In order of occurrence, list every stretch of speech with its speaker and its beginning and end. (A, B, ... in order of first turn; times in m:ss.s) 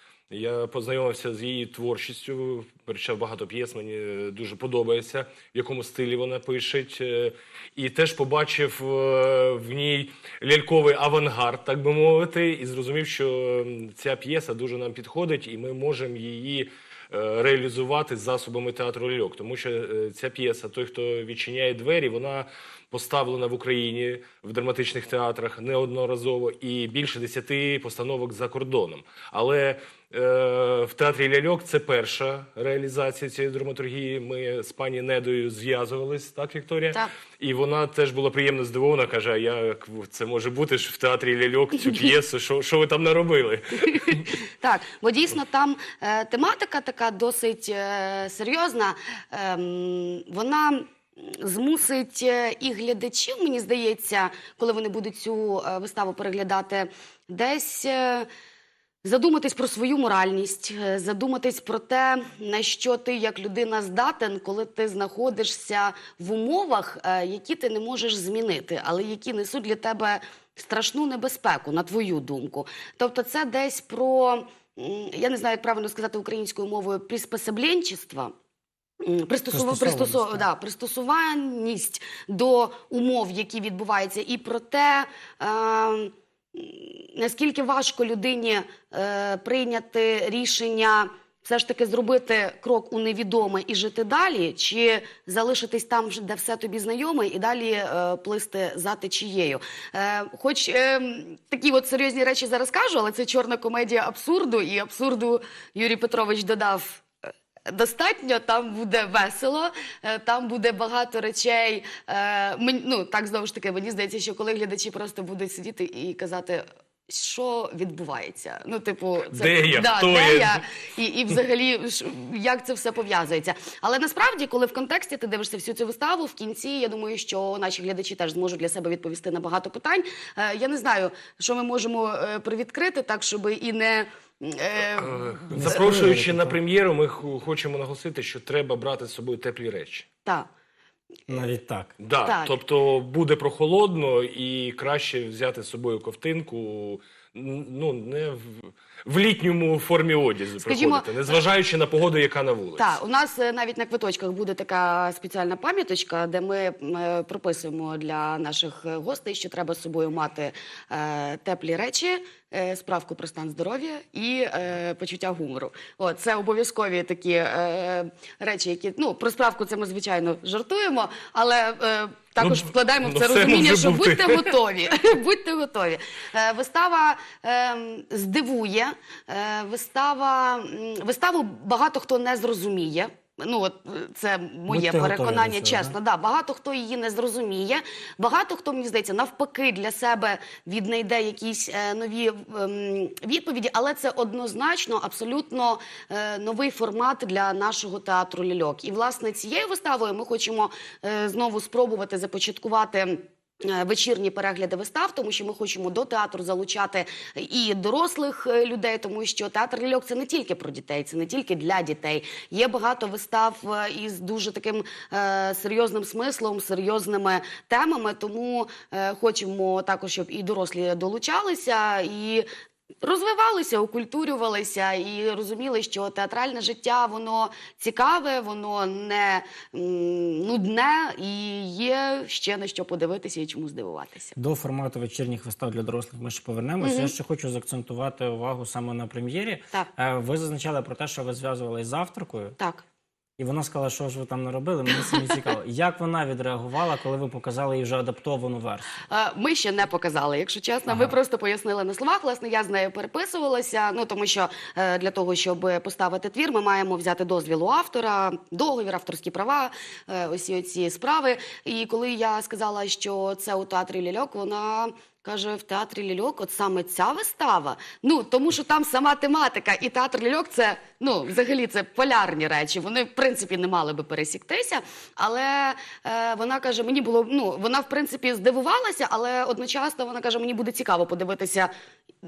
0:00.3-0:44.3 A
0:44.1-0:58.3 B
0:59.0-1:18.3 B
1:19.0-1:47.0 B
1:19.5-1:20.5 C
1:47.7-2:15.3 B
1:59.3-2:00.6 A
2:15.0-2:20.1 A
2:15.5-2:16.6 C
2:21.3-2:22.0 C
2:22.0-2:33.0 A
2:22.2-2:22.5 B
2:30.6-2:31.2 B
2:32.8-3:42.5 B
2:52.4-2:54.6 A
3:04.7-3:06.0 C
3:43.0-3:54.4 B
3:54.4-4:02.6 C
3:56.8-3:57.1 B
4:02.6-4:02.8 B
4:03.4-4:09.0 C
4:09.1-4:41.7 B
4:10.9-4:11.2 C